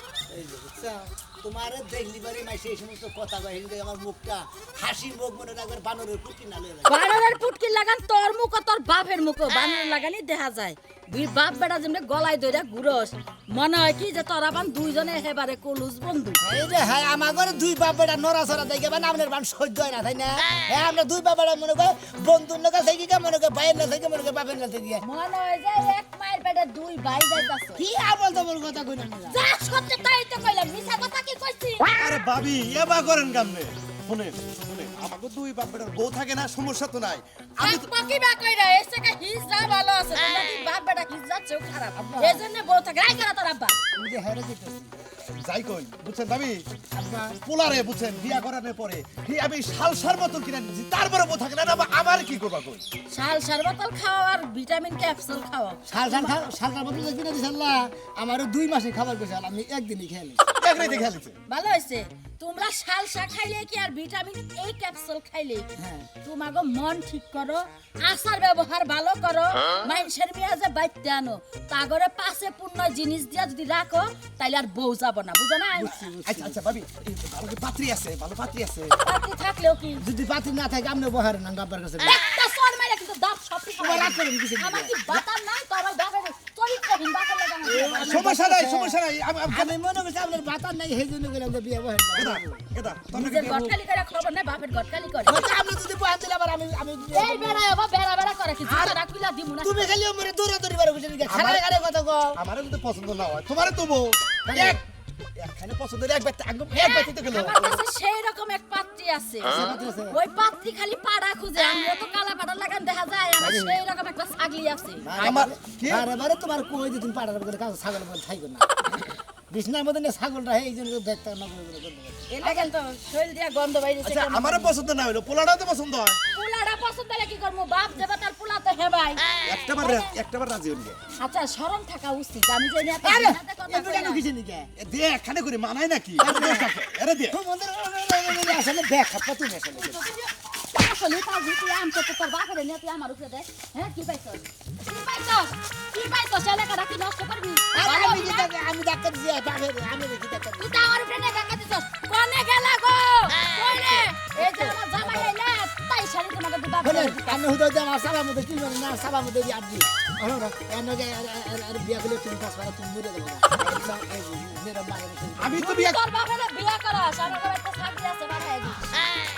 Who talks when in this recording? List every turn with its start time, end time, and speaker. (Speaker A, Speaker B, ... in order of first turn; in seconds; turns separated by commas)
Speaker A: 0.3-6.9, Speaker B: 6.9-16.4, Speaker A: 16.4-25.0, Speaker B: 25.0-27.9, Speaker A: 27.8-29.4, Speaker B: 29.3-31.9, Speaker C: 32.0-37.9, Speaker B: 37.6-43.8, Speaker A: 42.0-42.4, Speaker A: 43.9-44.9, Speaker C: 45.2-46.6, Speaker A: 46.9-47.4, Speaker C: 47.4-52.8, Speaker B: 53.1-56.3, Speaker A: 55.9-60.4, Speaker C: 60.6-61.4, Speaker B: 61.5-65.7, Speaker A: 65.8-66.1, Speaker B: 66.2-75.9, Speaker A: 75.8-76.6, Speaker C: 76.1-79.0, Speaker B: 79.0-80.0, Speaker A: 80.0-82.2, Speaker B: 82.1-88.4, Speaker A: 83.8-85.3, Speaker A: 87.7-89.0, Speaker C: 88.0-89.7, Speaker A: 89.5-92.6, Speaker C: 92.2-93.8, Speaker B: 93.1-95.4, Speaker A: 95.3-97.7, Speaker B: 97.1-100.0, Speaker A: 98.7-99.0, Speaker A: 99.6-102.4, Speaker C: 101.2-101.6, Speaker C: 102.3-104.8, Speaker A: 104.5-104.8, Speaker C: 105.3-107.8, Speaker B: 106.7-115.1, Speaker A: 109.5-110.2, Speaker C: 113.4-113.7, Speaker A: 115.0-118.9, Speaker C: 115.1-116.1, Speaker A: 119.5-122.6, Speaker B: 122.3-124.8, Speaker C: 124.0-126.2, Speaker B: 126.3-129.2, Speaker C: 129.5-131.0, Speaker B: 129.8-130.1, Speaker B: 131.2-134.2, Speaker A: 133.0-134.7, Speaker C: 134.8-137.4, Speaker A: 136.2-136.7, Speaker A: 137.3-140.0, Speaker B: 139.8-148.5, Speaker A: 147.7-150.9, Speaker B: 150.6-157.5, Speaker A: 153.7-155.3, Speaker A: 156.8-165.6, Speaker C: 165.4-166.0, Speaker B: 165.6-168.9